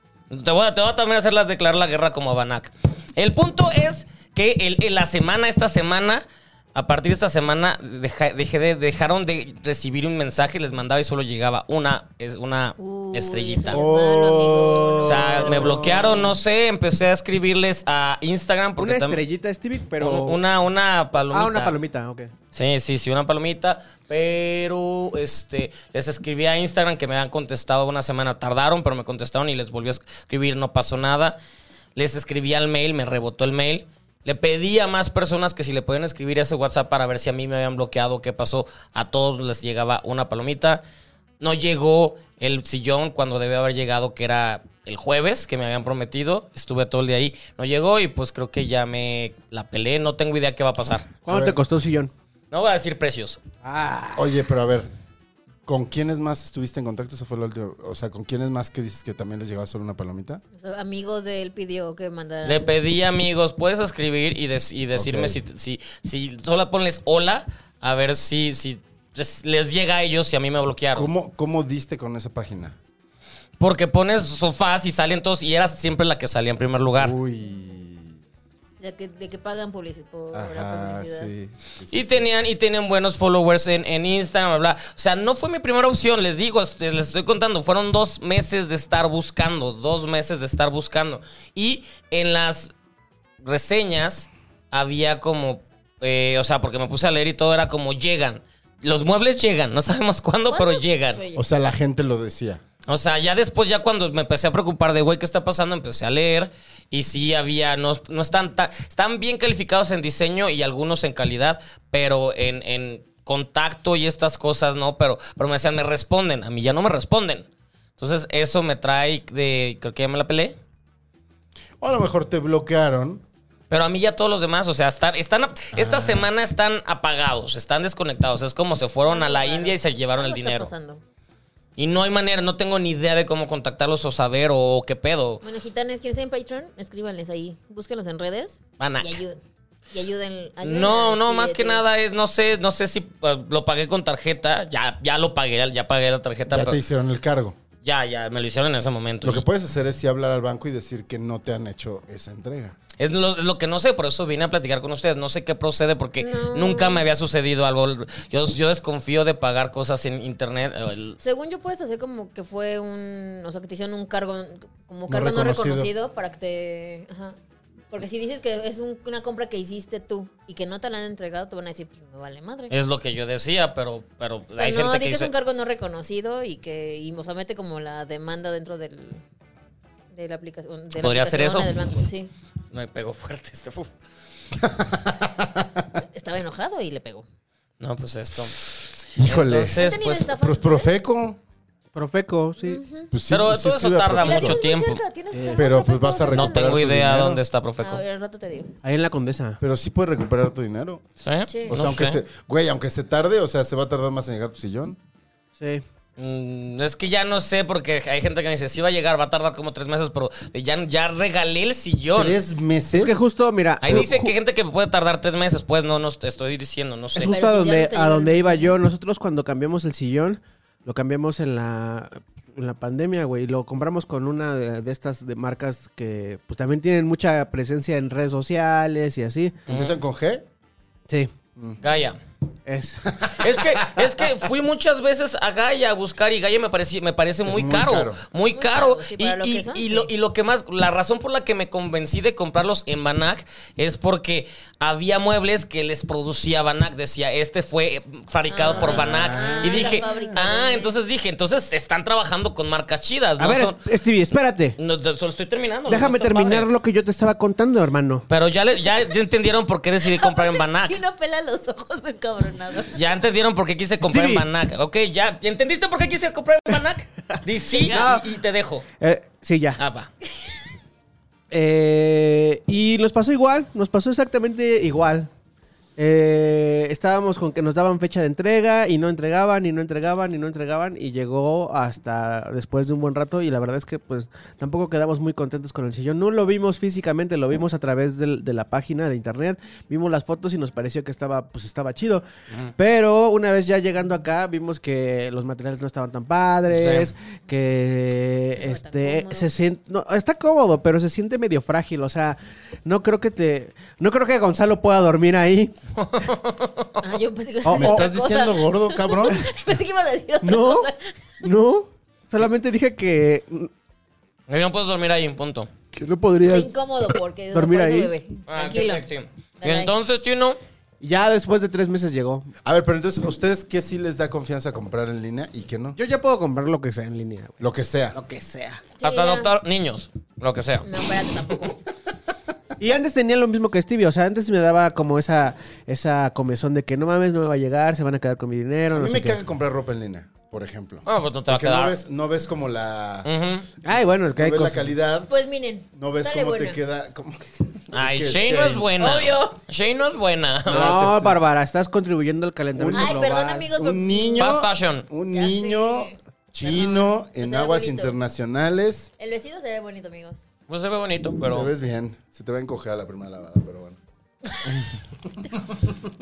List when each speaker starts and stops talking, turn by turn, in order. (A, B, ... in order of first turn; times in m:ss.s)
0:00.3-0:06.2 A
0:06.8-0:13.8 A
0:12.8-0:16.3 B
0:13.7-0:16.1 C
0:15.0-0:19.2 A
0:18.8-0:20.4 D
0:20.0-0:21.8 A
0:21.3-0:22.3 D
0:22.5-0:31.4 A
0:32.0-0:40.8 A
0:41.4-0:51.1 A
0:51.2-0:52.1 D
0:51.3-0:51.6 C
0:52.5-0:53.4 A
0:53.6-0:54.3 D
0:54.2-0:54.9 C
0:55.7-1:00.4 C
1:00.6-1:02.7 B
1:02.4-1:11.1 A
1:05.0-1:05.4 C
1:10.9-1:12.8 C
1:13.6-1:17.2 A
1:17.0-1:18.2 C
1:18.8-1:21.3 B
1:20.3-1:22.3 C
1:21.9-1:32.7 A
1:33.4-1:41.2 A
1:40.5-1:41.4 B
1:41.4-1:42.6 C
1:42.9-1:57.5 A
1:58.0-2:00.6 A
2:01.8-2:03.2 C
2:03.7-2:10.7 A
2:05.7-2:06.3 C
2:09.0-2:11.0 B
2:11.8-2:15.4 A
2:15.4-2:19.4 B
2:18.8-2:19.2 A
2:19.9-2:21.8 B
2:20.6-2:26.8 A
2:26.5-2:27.6 C
2:27.8-2:29.4 A
2:29.2-2:32.8 C
2:33.0-2:41.2 A
2:36.2-2:37.0 B
2:41.2-2:47.4 B
2:45.1-2:45.9 C
2:47.9-2:52.7 B
2:52.7-2:55.3 A
2:54.6-2:59.2 B
3:00.1-3:02.3 B
3:01.0-3:02.1 A
3:02.7-3:03.9 A
3:04.6-3:05.8 C
3:06.1-3:07.2 B
3:07.8-3:10.3 A
3:09.2-3:11.4 C
3:09.8-3:10.9 B
3:12.0-3:12.8 D
3:12.6-3:13.1 B
3:13.1-3:14.6 C
3:13.3-3:15.0 A
3:14.2-3:16.8 B
3:15.3-3:15.7 D
3:15.6-3:17.4 C
3:16.3-3:18.0 A
3:17.8-3:18.8 B
3:18.8-3:19.6 D
3:19.6-3:21.0 C
3:21.2-3:22.2 A
3:21.5-3:21.8 B
3:21.7-3:25.0 C
3:25.6-3:25.8 D
3:26.2-3:32.4 A
3:32.1-3:33.2 C
3:32.9-3:34.3 D
3:33.8-3:37.4 A
3:37.2-3:38.8 B
3:37.2-3:49.6 D
3:49.7-3:50.0 A
3:49.7-3:50.4 C
3:51.8-3:52.2 A
3:52.7-3:53.2 D
3:53.2-4:13.8 A
3:57.4-3:58.2 C
3:58.5-4:00.1 B
4:08.5-4:10.9 B
4:08.6-4:10.4 C
4:13.4-4:14.8 D
4:14.8-4:16.7 A
4:15.9-4:18.2 D
4:18.3-4:21.0 A
4:20.0-4:23.0 B
4:22.9-4:28.8 A
4:24.0-4:24.4 D
4:27.7-4:28.1 B
4:27.8-4:28.2 D
4:29.0-4:29.8 D
4:29.8-4:30.1 A
4:31.5-4:35.3 D
4:36.0-4:52.2 D
4:52.8-5:05.7 D
4:56.7-4:57.1 A
4:58.6-4:59.5 B
5:06.0-5:07.0 A
5:07.0-5:11.2 B
5:07.6-5:08.1 D
5:07.7-5:09.4 C
5:10.4-5:10.9 D
5:11.4-5:13.7 D
5:14.5-5:15.7 A
5:15.9-5:17.2 C
5:16.5-5:19.0 B
5:17.5-5:18.1 D
5:18.5-5:20.6 A
5:19.6-5:19.9 B
5:21.0-5:22.5 D
5:22.6-5:26.0 C
5:26.0-5:28.8 D
5:27.6-5:28.2 C
5:29.0-5:29.5 B
5:29.0-5:31.1 A
5:30.8-5:31.8 B
5:32.8-5:39.4 D
5:38.9-5:43.3 C
5:41.1-5:42.0 A
5:43.2-5:43.7 A
5:43.8-5:44.9 D
5:44.3-5:45.3 C
5:45.3-5:46.8 B
5:45.9-5:48.9 C
5:47.9-5:51.0 A
5:49.0-5:49.6 B
5:50.7-5:51.4 C
5:50.7-5:53.7 D
5:52.7-5:59.1 C
5:52.9-5:54.6 B
5:54.4-5:55.1 A
5:55.3-5:58.2 B
5:59.2-6:00.4 B
6:00.7-6:01.7 A
6:01.4-6:04.0 C
6:04.7-6:04.9 A
6:05.7-6:06.1 C